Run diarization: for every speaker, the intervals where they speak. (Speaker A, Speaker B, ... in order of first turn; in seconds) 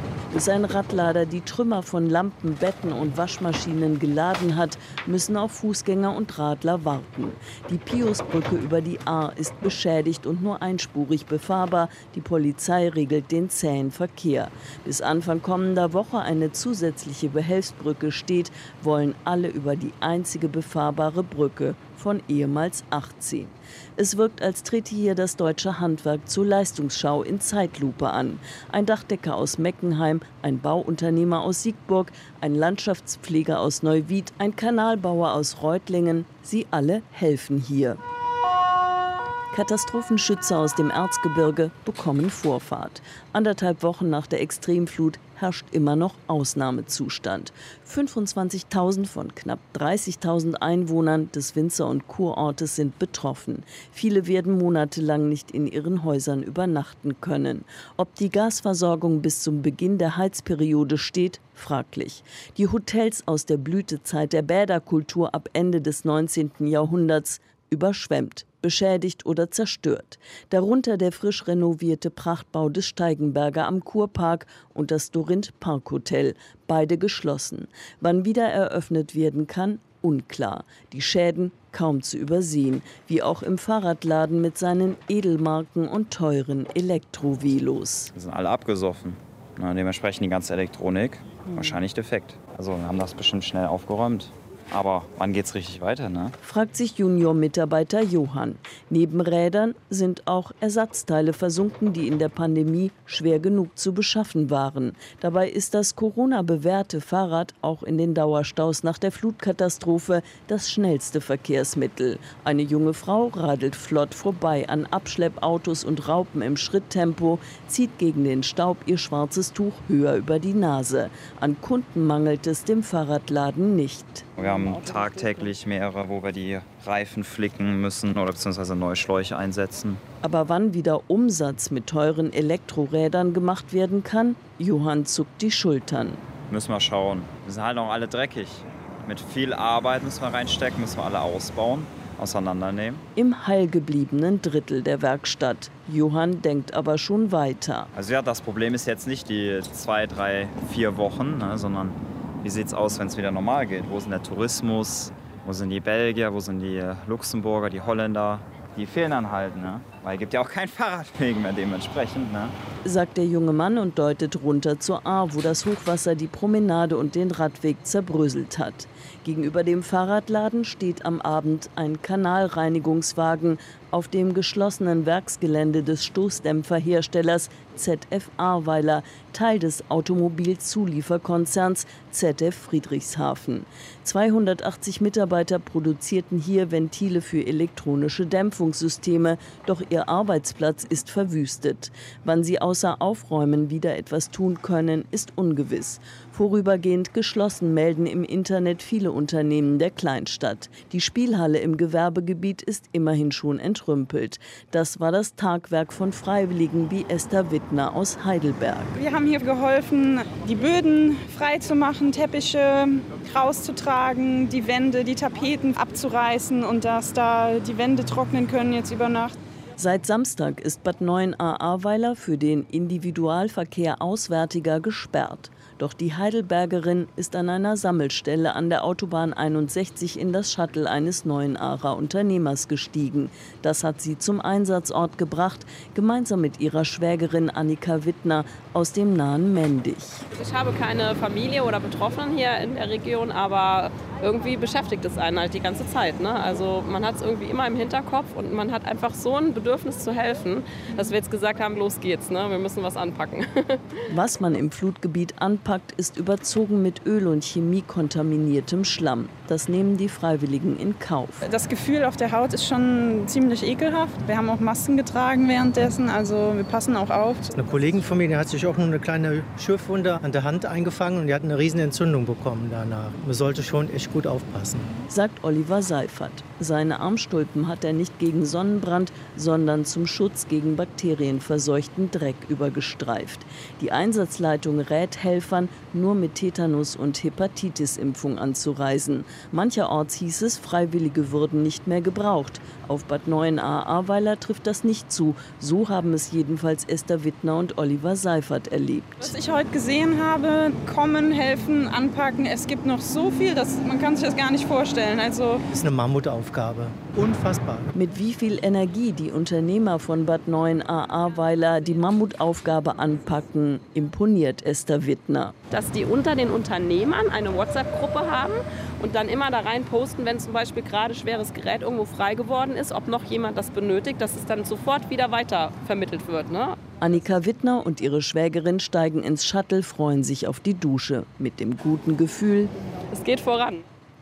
Speaker A: 0.3-38.0, 39.5-88.1, 96.4-125.5, 130.2-136.2, 143.2-147.9, 162.8-209.0, 219.8-240.2, 254.1-261.4, 275.1-299.4, 307.9-315.6, 327.0-332.7
Speaker B: 88.1-96.4, 124.4-130.0, 136.5-143.0, 147.9-162.6
Speaker C: 209.0-219.4, 250.9-251.2, 261.4-268.0, 299.2-305.6
Speaker D: 240.3-253.8, 315.7-326.8, 333.1-333.8
Speaker E: 267.5-274.9, 305.7-307.9